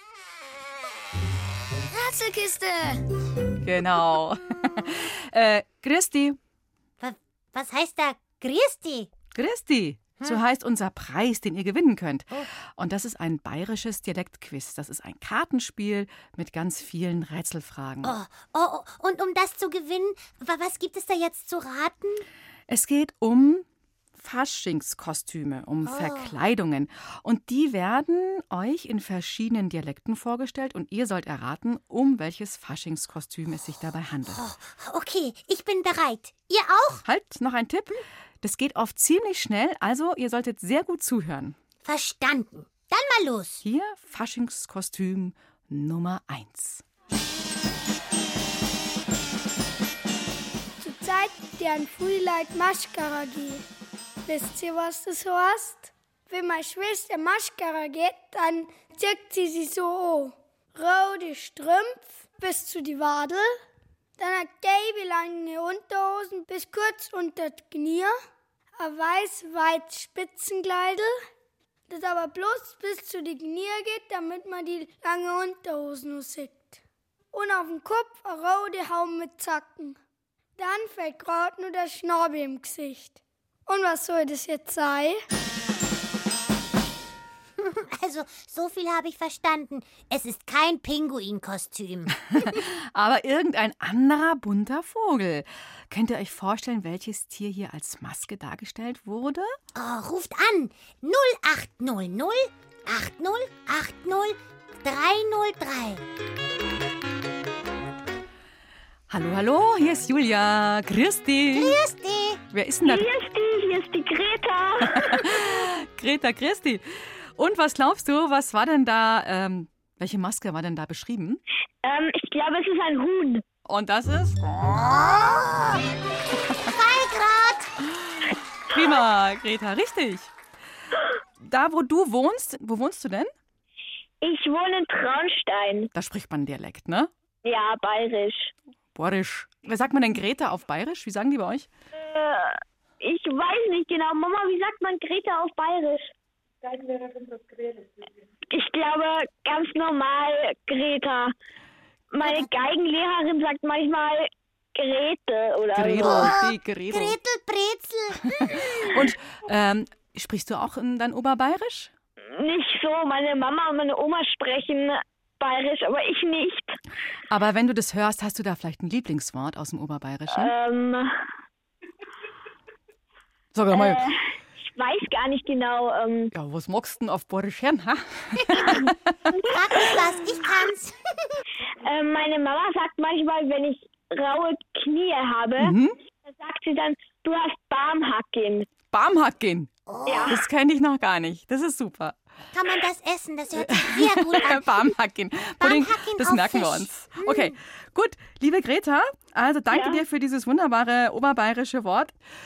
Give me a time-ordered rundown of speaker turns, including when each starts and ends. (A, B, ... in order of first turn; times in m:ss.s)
0:03.6-0:06.4 A
0:07.0-0:09.1 B
0:09.4-0:18.2 A
0:18.0-0:22.2 B
0:22.7-0:23.6 A
0:24.2-0:34.5 A
0:25.9-0:26.3 B
0:34.3-0:37.0 B
0:37.0-0:41.6 A
0:41.8-0:43.6 B
0:43.6-0:46.8 A
0:50.8-0:53.6 C
0:54.3-1:03.5 C
1:04.2-1:08.2 C
1:08.8-1:11.1 C
1:11.9-1:16.8 C
1:17.3-1:20.0 C
1:20.6-1:25.2 C
1:27.6-1:32.6 B
1:32.3-1:39.5 A
1:39.8-1:46.0 B
1:49.1-1:51.8 A
1:51.5-1:52.4 B
1:52.5-1:53.1 A
1:52.9-1:55.2 D
1:54.8-1:56.8 A
1:57.4-2:01.4 A
2:01.8-2:03.4 D
2:03.7-2:04.6 A
2:05.0-2:05.8 B
2:06.7-2:07.7 B
2:08.7-2:10.3 A
2:11.4-2:13.3 A
2:14.2-2:15.9 D
2:15.9-2:17.1 A
2:17.4-2:18.5 D
2:19.0-2:21.7 A
2:22.0-2:26.1 D
2:28.5-2:31.3 D
2:32.1-2:36.3 D
2:35.7-2:37.2 A
2:36.0-2:39.0 B
2:38.4-2:41.9 A
2:42.4-2:46.8 D
2:47.3-2:50.5 A
2:50.4-2:51.1 D
2:53.6-2:54.0 A
2:53.7-2:56.3 D
2:56.3-2:59.1 A
2:59.4-3:01.4 B
3:01.9-3:05.7 D
3:05.6-3:05.9 A
3:06.3-3:08.7 D
3:08.9-3:09.7 A
3:09.9-3:10.4 B
3:10.1-3:10.4 D
3:10.3-3:12.2 A
3:12.5-3:14.9 B
3:13.6-3:22.2 A
3:15.6-3:17.5 B
3:19.7-3:20.0 D